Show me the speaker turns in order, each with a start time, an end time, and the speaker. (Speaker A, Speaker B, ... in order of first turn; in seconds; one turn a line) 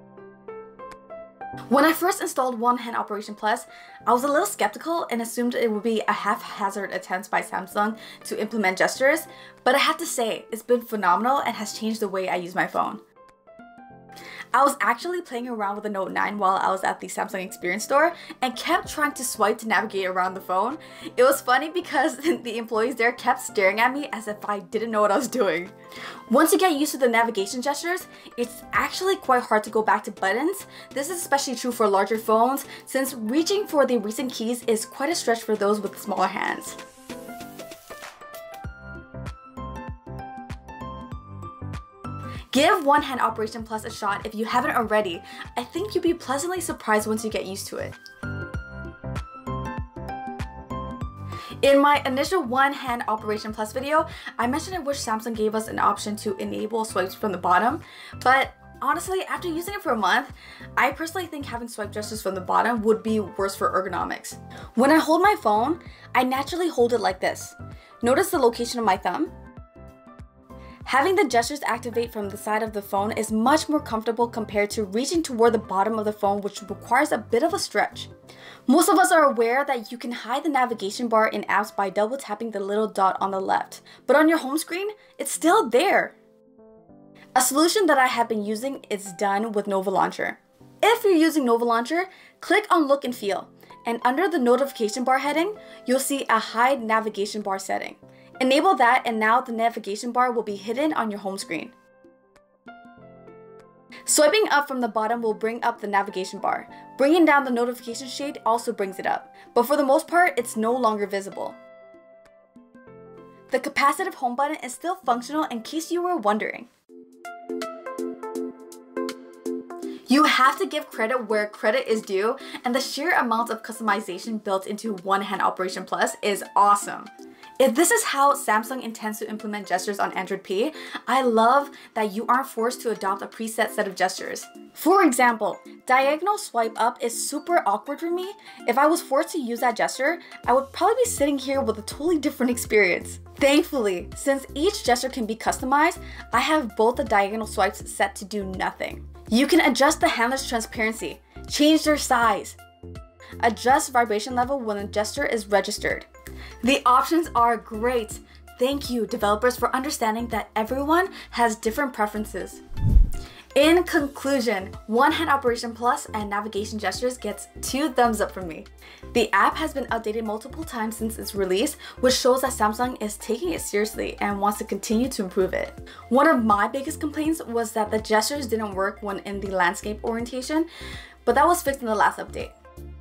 Speaker A: 1.7-13.0
Speaker A: 14.5-25.7
Speaker A: 26.3-36.8
Speaker A: 42.5-48.0
Speaker A: 51.6-69.3
Speaker A: 70.8-78.1
Speaker A: 78.7-86.1
Speaker A: 87.3-101.7
Speaker A: 104.0-111.6
Speaker A: 113.5-116.7
Speaker A: 120.1-152.6
Speaker A: 153.4-156.1
Speaker A: 156.6-162.6
Speaker A: 163.5-180.7
Speaker A: 181.2-182.5